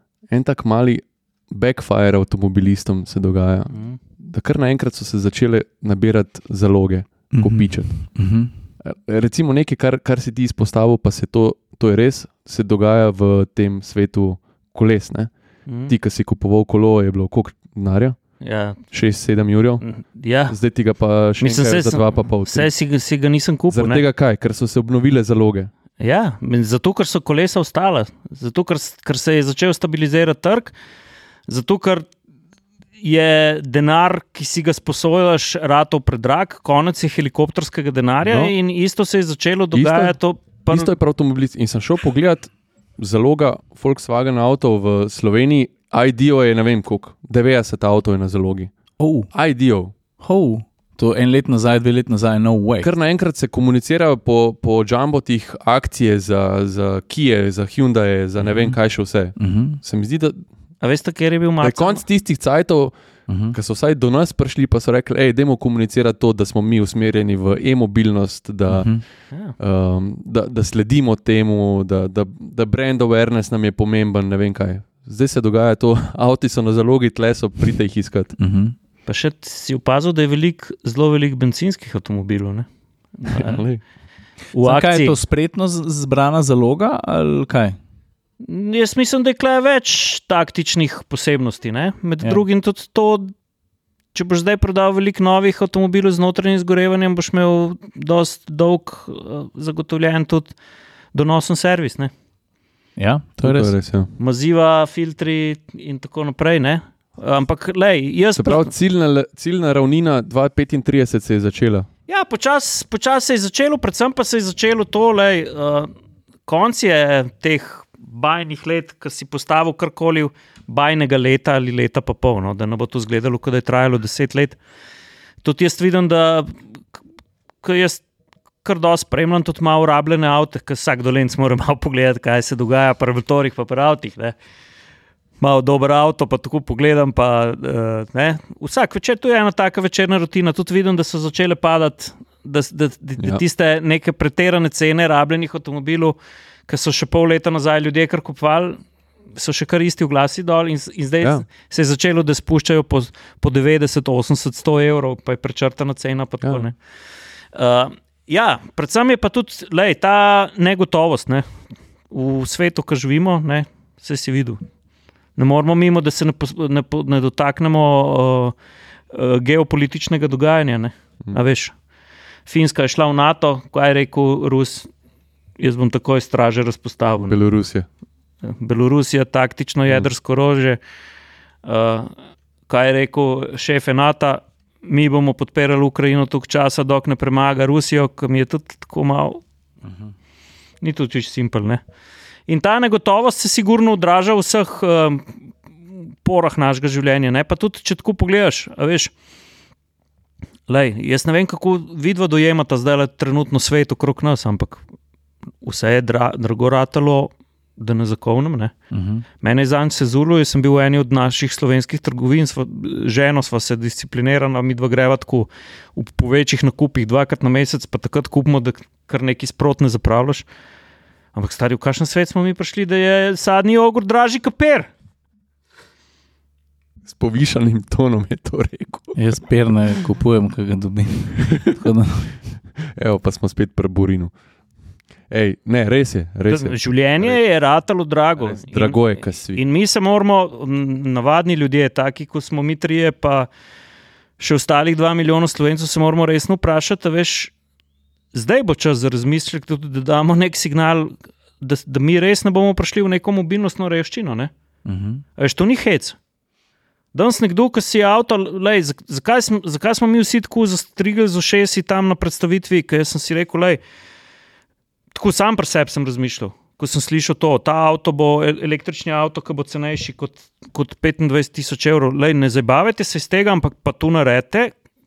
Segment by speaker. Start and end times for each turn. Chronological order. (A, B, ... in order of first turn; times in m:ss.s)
0:00.3-0:07.9 A
0:07.3-0:08.5 B
0:08.8-0:15.3 A
0:15.7-0:15.9 C
0:15.9-0:18.2 A
0:18.4-0:18.8 C
0:18.9-0:19.8 A
0:19.8-0:20.6 C
0:20.5-0:22.7 A
0:21.4-0:24.0 C
0:23.7-0:25.7 A
0:26.0-0:30.7 C
0:31.5-0:32.1 C
0:33.0-0:40.9 C
0:38.2-0:38.5 A
0:39.7-0:40.2 A
0:40.7-0:48.7 A
0:49.0-0:49.3 B
0:49.3-0:49.9 A
0:50.2-0:52.9 B
0:52.8-1:00.4 A
0:58.5-0:58.8 B
0:59.4-0:59.8 B
1:00.8-1:02.0 C
1:01.6-1:02.9 A
1:03.3-1:03.6 B
1:03.5-1:08.9 A
1:08.7-1:09.0 B
1:09.6-1:18.4 A
1:18.4-1:18.8 B
1:19.1-1:22.7 C
1:23.2-1:23.6 C
1:23.3-1:23.5 B
1:23.4-1:23.8 A
1:24.5-1:25.2 C
1:24.6-1:27.8 B
1:28.4-1:33.3 C
1:34.1-1:40.5 C
1:41.1-1:42.1 C
1:43.0-1:43.7 B
1:43.4-1:44.1 A
1:44.2-1:48.7 C
1:48.4-1:51.9 A
1:52.1-1:55.9 C
1:56.5-2:04.6 C
2:05.4-2:06.5 C
2:07.6-2:08.0 C
2:08.6-2:14.4 C
2:15.4-2:26.2 C
2:26.7-2:28.8 C
2:29.4-2:36.8 C
2:37.5-2:41.4 C
2:42.1-2:44.6 C
2:45.4-2:48.6 C
2:49.1-2:51.7 C
2:52.5-2:54.9 C
2:55.6-2:57.4 C
2:57.3-2:57.9 A
2:58.4-3:00.8 C
3:01.6-3:02.1 C
3:02.7-3:09.4 C
3:10.8-3:11.8 C
3:12.5-3:15.3 C
3:16.2-3:19.1 C
3:20.7-3:24.8 C
3:25.6-3:28.7 C
3:28.9-3:29.2 B
3:29.4-3:40.4 C
3:41.3-3:44.9 C
3:47.0-3:49.2 A
3:49.2-3:52.3 B
3:53.0-3:54.3 A
3:55.3-3:57.4 A
3:56.5-4:03.5 C
3:58.4-3:59.6 A
4:04.4-4:07.5 C
4:08.3-4:14.5 C
4:14.9-4:15.2 B
4:15.4-4:16.2 C
4:17.1-4:23.8 C
4:25.2-4:34.7 C